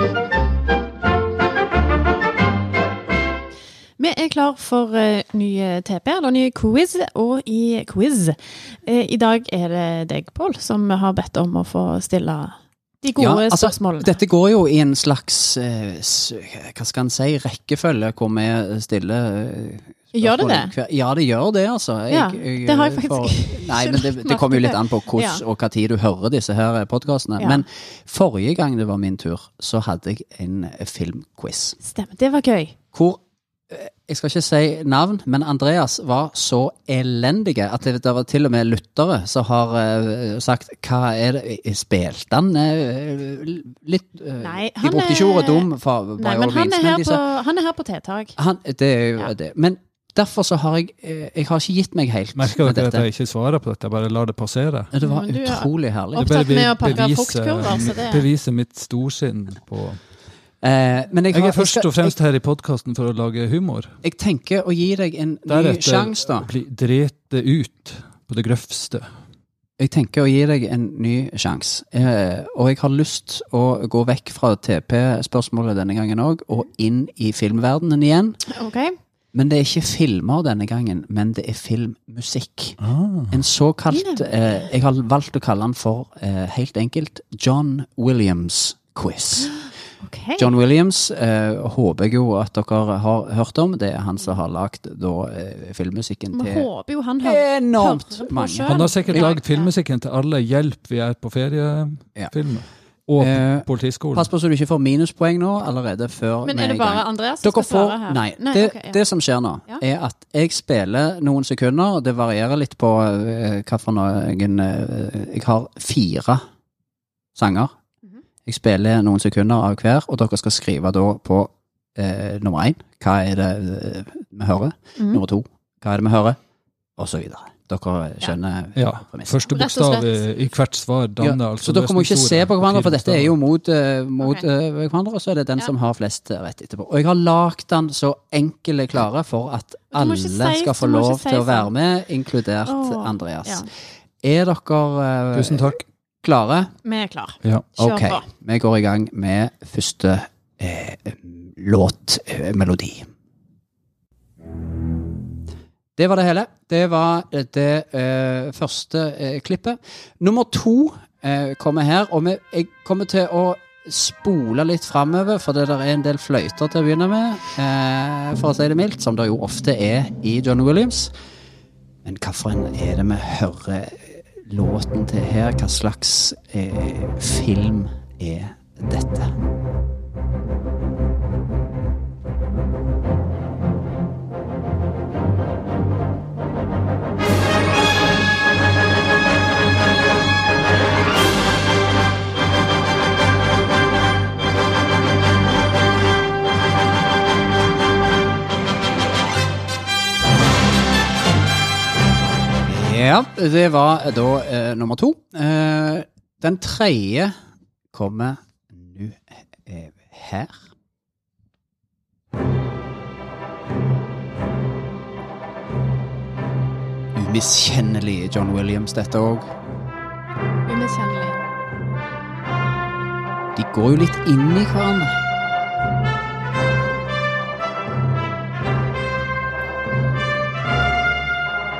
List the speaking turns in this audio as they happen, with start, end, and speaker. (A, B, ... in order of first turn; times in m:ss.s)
0:04.0-0:14.2 A
0:13.2-0:31.8 B
0:20.1-0:20.7 A
0:22.1-0:25.4 A
0:31.8-0:32.7 A
0:32.9-0:47.2 B
0:44.4-0:48.3 A
0:48.4-0:53.0 B
0:52.4-0:54.9 C
0:54.9-0:56.3 B
0:55.0-0:58.2 A
0:56.2-1:00.0 C
1:00.6-1:02.2 B
1:01.3-1:03.9 C
1:04.0-1:06.5 B
1:05.5-1:09.0 C
1:09.8-1:18.4 B
1:18.5-1:18.9 A
1:19.3-1:22.8 B
1:22.8-1:23.3 C
1:23.3-1:29.7 B
1:23.9-1:24.3 A
1:30.0-1:30.5 A
1:30.4-1:36.7 B
1:36.3-1:39.7 A
1:37.2-1:39.3 B
1:38.7-1:44.3 C
1:43.2-1:56.4 B
1:46.4-1:49.0 A
1:57.4-1:57.7 B
1:58.4-2:06.4 B
2:07.0-2:09.5 B
2:08.8-2:13.4 C
2:09.5-2:10.2 A
2:11.2-2:23.6 B
2:14.2-2:14.4 A
2:19.9-2:21.7 A
2:22.6-2:23.7 A
2:24.2-2:26.7 B
2:25.3-2:25.8 C
2:26.8-2:28.2 A
2:27.4-2:27.7 C
2:27.8-2:33.0 B
2:36.0-2:51.1 B
2:52.0-2:59.3 B
3:22.7-3:27.3 B
3:27.9-3:30.6 B
3:37.2-3:39.5 B
3:40.7-3:41.4 A
3:43.6-3:45.1 B